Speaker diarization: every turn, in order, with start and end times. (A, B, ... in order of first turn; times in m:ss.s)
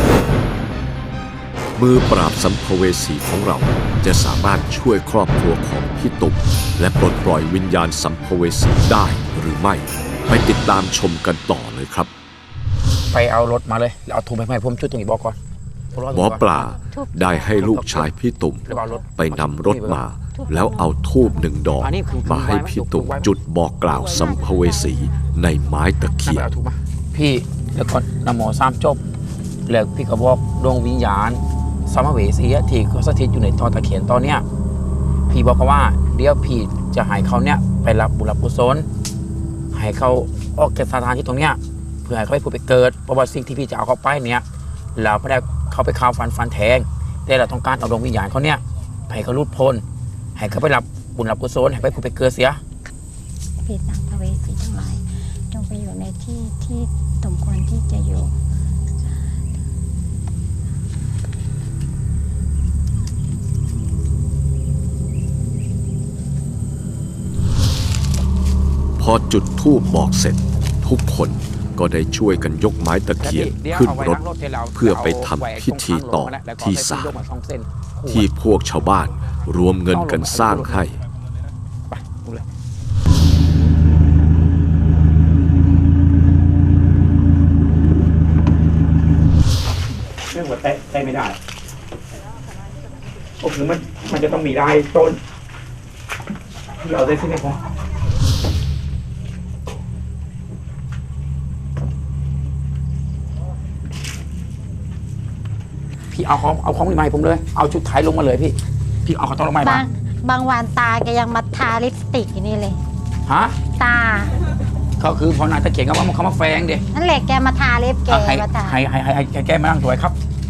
0:01.8-0:12.1 A
0:13.1-0:15.4 B
0:15.9-0:16.5 B
0:16.1-0:26.5 A
0:16.9-0:17.7 C
0:17.6-0:18.0 B
0:18.7-0:20.0 B
0:20.5-0:20.8 C
0:21.8-0:23.3 B
0:24.1-0:24.5 C
0:26.2-0:29.0 B
0:29.7-0:34.4 B
0:35.3-0:38.8 B
0:39.7-0:44.4 B
0:45.0-0:49.8 B
0:50.4-0:52.6 B
0:53.6-0:58.3 C
1:09.0-1:14.2 A
1:13.2-1:18.3 B
1:14.8-1:17.2 A
1:18.1-1:21.0 A
1:19.9-1:20.8 B
1:21.9-1:22.4 B
1:30.3-1:31.4 B
1:33.4-1:35.2 B
1:36.8-1:37.6 B
1:46.1-1:49.8 B
1:49.6-1:52.8 C
1:53.2-1:53.6 B
1:53.8-1:54.3 C
1:55.0-1:56.8 B
1:56.9-1:58.8 C
1:58.1-2:00.2 B